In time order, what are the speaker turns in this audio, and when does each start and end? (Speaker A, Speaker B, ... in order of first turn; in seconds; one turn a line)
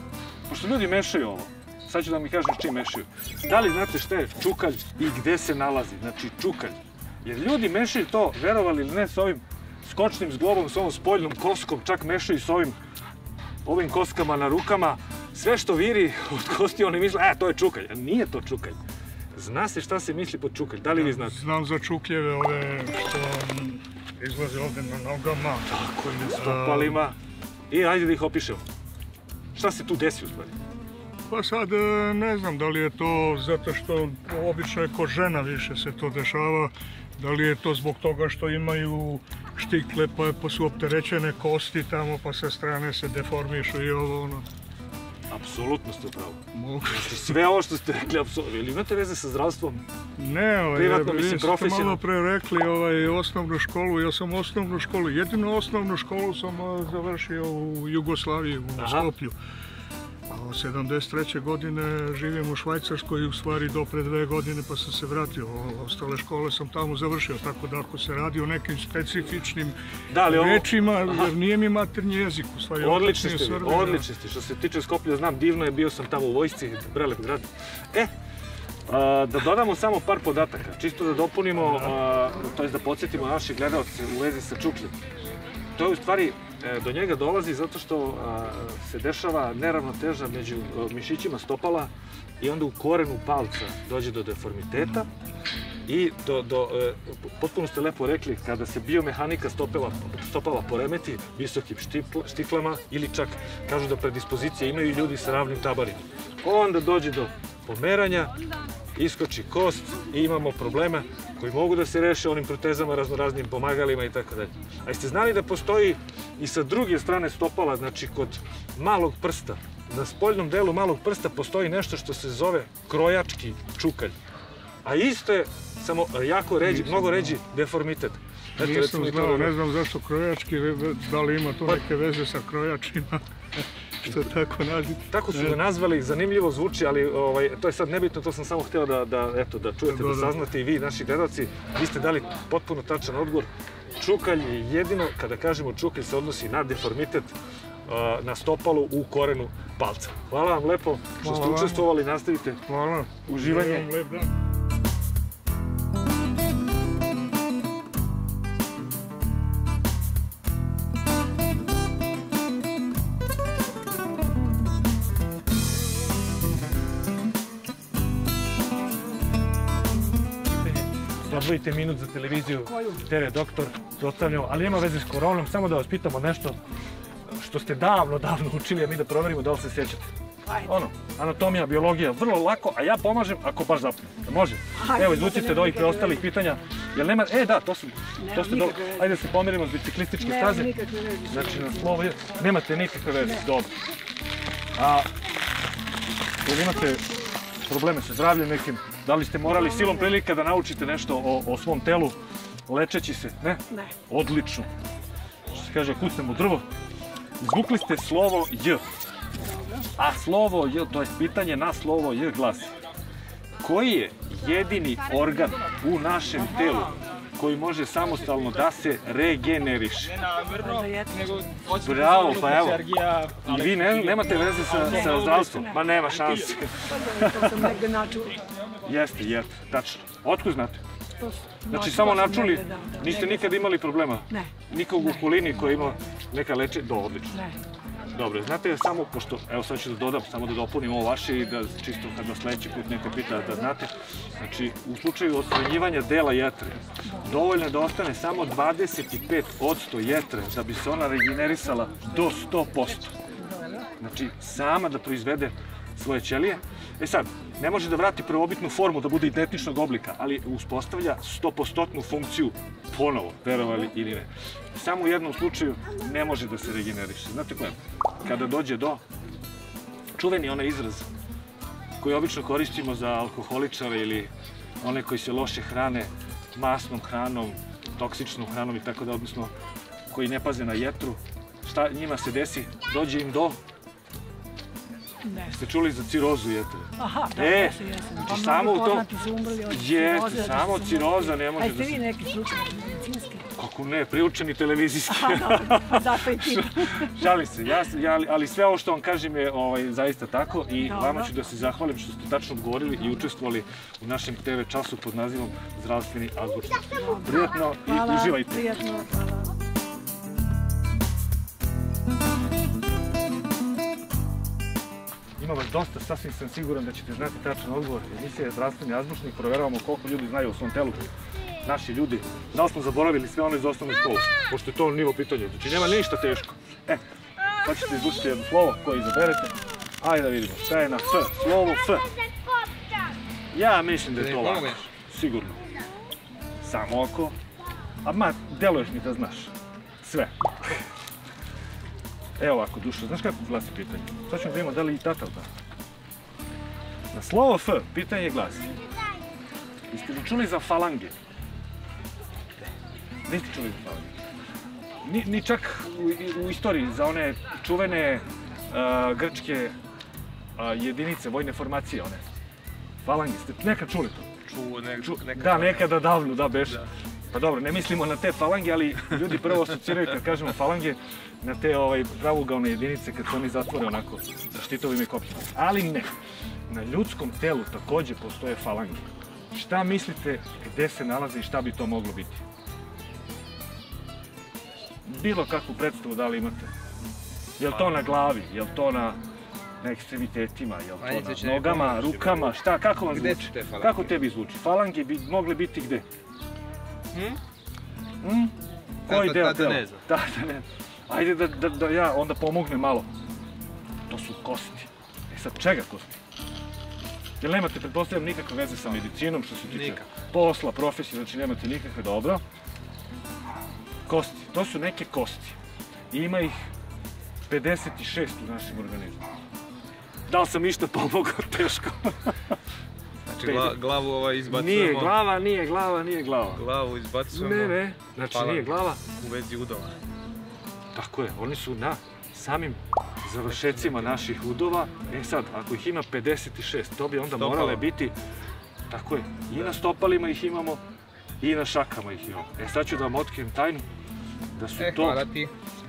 Speaker A: 0.5-12.8
Speaker A: 13.7-18.8
Speaker A: 19.4-21.4
Speaker B: 21.0-25.7
Speaker A: 25.6-27.2
Speaker B: 26.3-27.0
Speaker A: 27.7-28.6
Speaker A: 29.6-30.5
Speaker B: 31.3-44.5
Speaker A: 45.3-49.8
Speaker B: 46.5-47.1
Speaker B: 50.2-59.4
Speaker A: 50.7-52.0
Speaker A: 58.8-59.1
Speaker B: 60.3-69.8
Speaker A: 70.1-71.3
Speaker B: 70.3-74.1
Speaker A: 72.8-78.1
Speaker A: 78.9-85.0
Speaker A: 85.8-95.1
Speaker A: 95.9-108.3
Speaker A: 109.0-124.2
Speaker A: 124.8-129.6
Speaker B: 128.6-133.2
Speaker B: 134.0-135.6
Speaker A: 135.1-147.3
Speaker B: 139.9-140.3
Speaker A: 147.9-152.6
Speaker B: 151.2-151.9
Speaker B: 152.7-154.3
Speaker A: 153.2-153.9
Speaker A: 170.5-176.6
Speaker A: 177.3-193.7
Speaker C: 184.8-186.2
Speaker C: 188.2-189.1
Speaker C: 190.2-191.9
Speaker A: 194.8-195.1
Speaker A: 196.4-197.1
Speaker A: 197.7-204.7
Speaker A: 205.5-206.7
Speaker A: 207.4-208.8
Speaker A: 210.0-212.7
Speaker A: 213.6-220.2
Speaker D: 220.3-224.2
Speaker C: 220.6-221.3
Speaker A: 221.8-222.9
Speaker A: 223.4-227.8
Speaker C: 224.8-225.2
Speaker C: 226.9-228.4
Speaker A: 228.8-230.8
Speaker C: 231.2-233.5
Speaker A: 231.7-237.4
Speaker C: 235.2-235.9
Speaker C: 237.3-237.6
Speaker A: 238.1-253.1
Speaker A: 254.0-269.0
Speaker A: 270.1-271.1
Speaker A: 272.0-279.5
Speaker A: 280.1-283.6
Speaker A: 285.4-292.1
Speaker C: 287.0-293.4
Speaker A: 293.6-308.8
Speaker C: 295.2-297.1
Speaker C: 300.8-301.3
Speaker C: 307.8-309.6
Speaker A: 315.4-321.1
Speaker A: 321.6-327.0
Speaker A: 327.6-332.1
Speaker A: 333.5-335.6
Speaker D: 334.1-334.9
Speaker A: 336.6-337.4
Speaker A: 338.0-340.7
Speaker A: 342.4-345.5
Speaker A: 347.1-348.8
Speaker A: 349.9-351.1
Speaker A: 353.3-354.1
Speaker A: 355.0-359.8
Speaker A: 360.6-362.3
Speaker A: 363.0-364.3
Speaker D: 364.4-366.0
Speaker A: 365.0-376.1
Speaker A: 376.7-382.4
Speaker A: 385.1-386.7
Speaker A: 387.6-389.2
Speaker D: 387.7-387.9
Speaker A: 389.8-396.1
Speaker D: 391.0-392.6
Speaker D: 393.1-394.1
Speaker D: 397.1-397.4
Speaker A: 398.2-398.6
Speaker D: 399.1-400.0
Speaker A: 399.1-403.1
Speaker A: 404.1-406.2
Speaker A: 407.4-412.4
Speaker D: 409.7-410.1
Speaker A: 414.1-415.6
Speaker A: 416.1-416.6
Speaker A: 417.5-419.2
Speaker A: 420.3-422.3
Speaker D: 423.3-425.1
Speaker A: 423.4-423.8
Speaker A: 424.5-426.6
Speaker D: 426.5-427.8
Speaker A: 427.3-429.0
Speaker D: 428.3-430.0
Speaker A: 430.9-438.1
Speaker D: 433.5-434.2
Speaker D: 437.3-437.9
Speaker A: 438.9-440.8
Speaker A: 441.4-443.9
Speaker A: 444.6-445.3
Speaker D: 444.8-445.5